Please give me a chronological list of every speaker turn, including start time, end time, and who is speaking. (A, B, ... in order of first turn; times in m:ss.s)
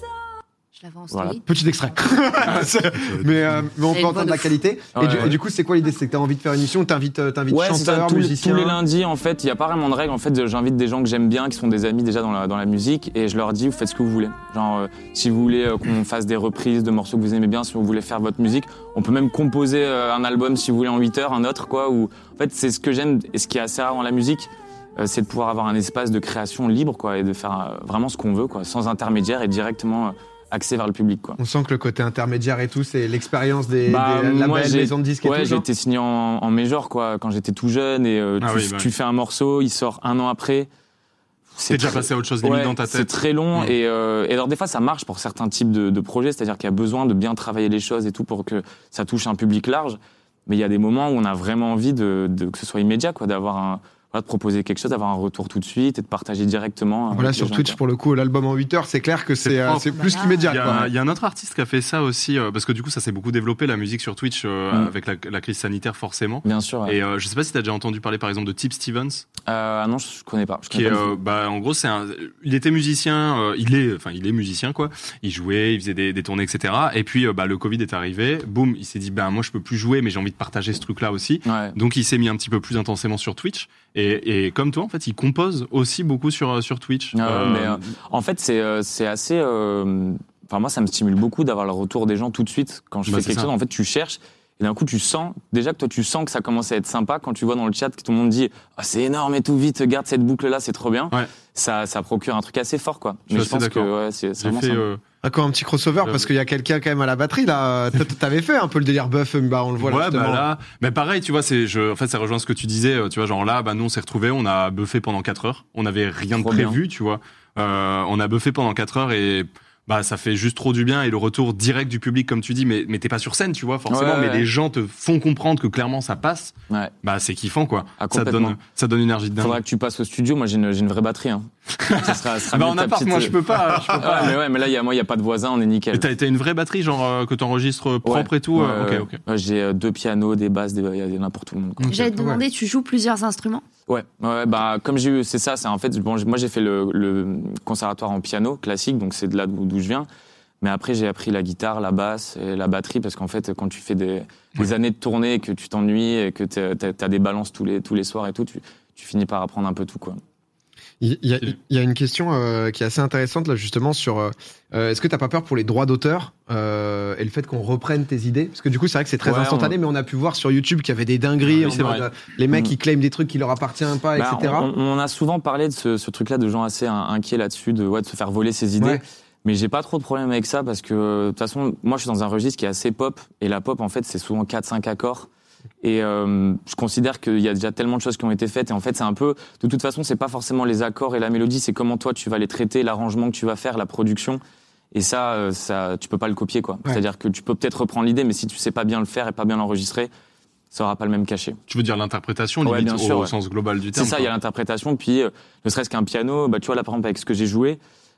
0:00.8-0:01.4 A
0:01.1-0:01.4 B
0:01.5-0:08.8 C
0:03.9-0:04.5 A
0:04.9-0:05.4 B
0:07.5-0:31.4 B
0:31.4-0:35.7 C
0:33.9-0:40.7 B
0:38.4-0:38.9 D
0:41.6-0:57.8 B
0:41.7-0:43.8 D
0:57.1-1:00.9 C
0:59.4-1:09.2 D
1:00.0-1:00.4 A
1:06.4-1:07.0 B
1:09.5-1:11.1 B
1:10.7-1:27.9 D
1:21.5-1:21.8 B
1:27.1-1:44.8 B
1:33.1-1:33.5 D
1:43.3-1:45.0 D
1:45.2-1:50.5 C
1:49.8-2:09.6 D
1:56.4-1:56.8 B
2:03.9-2:04.5 B
2:08.0-2:08.6 B
2:09.4-2:16.1 B
2:11.8-2:14.4 D
2:15.9-2:19.2 D
2:18.0-2:22.0 B
2:21.8-2:22.1 D
2:21.9-2:23.6 A
2:22.2-2:22.4 C
2:23.9-2:30.1 B
2:30.6-2:40.2 B
2:41.0-2:54.7 C
2:49.2-2:49.8 B
2:51.5-2:52.1 D
2:54.2-3:05.3 B
3:05.8-3:14.4 B
3:14.9-3:20.1 B
3:20.7-3:21.6 B
3:21.7-3:24.3 D
3:22.6-3:23.4 B
3:23.9-3:27.8 B